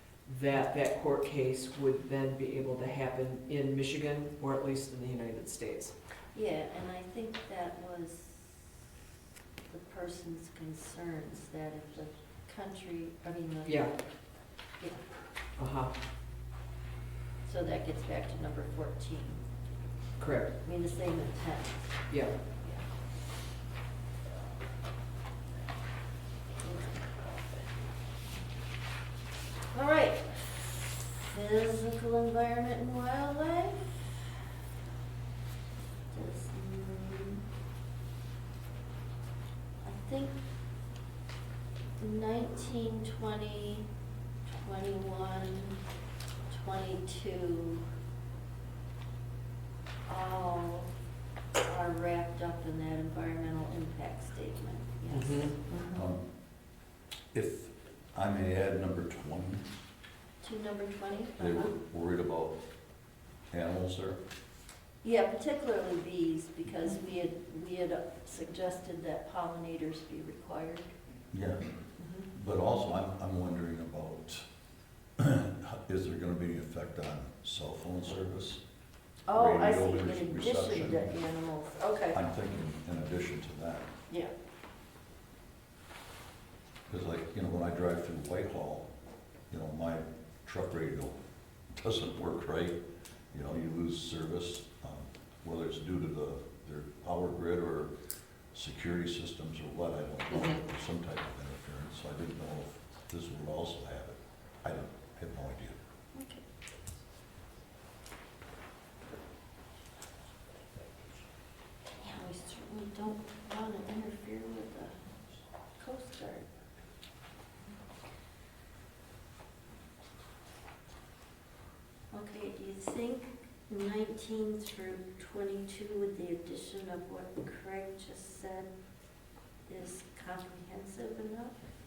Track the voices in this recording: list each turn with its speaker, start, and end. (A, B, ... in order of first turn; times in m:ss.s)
0:00.2-0:06.0 A
0:06.3-0:08.7 B
0:09.7-0:13.9 B
0:13.6-0:13.9 A
0:15.6-0:15.9 A
0:17.4-0:19.4 B
0:20.2-0:20.5 A
0:20.6-0:21.8 B
0:26.6-0:27.7 B
0:29.7-0:34.4 B
0:36.1-0:37.4 B
0:39.8-0:40.4 B
0:42.0-0:43.9 B
0:44.4-0:45.8 B
0:46.5-0:47.8 B
0:50.1-0:50.9 B
0:51.6-0:55.8 B
0:55.1-0:55.5 A
0:55.9-0:56.2 C
0:57.3-0:59.6 C
1:00.4-1:01.7 B
1:01.4-1:02.6 C
1:03.5-1:04.2 C
1:05.0-1:10.9 B
1:11.3-1:11.6 C
1:12.0-1:12.2 B
1:12.3-1:14.4 C
1:15.2-1:18.6 C
1:19.3-1:22.2 B
1:19.3-1:21.1 C
1:22.1-1:23.9 C
1:26.9-1:28.9 C
1:29.5-1:31.2 C
1:31.7-1:32.8 C
1:33.3-1:37.9 C
1:38.5-1:45.8 C
1:40.3-1:40.6 A
1:46.1-1:46.4 B
1:52.0-1:55.0 B
1:55.8-1:56.5 B
2:02.1-2:08.7 B
2:09.7-2:11.5 B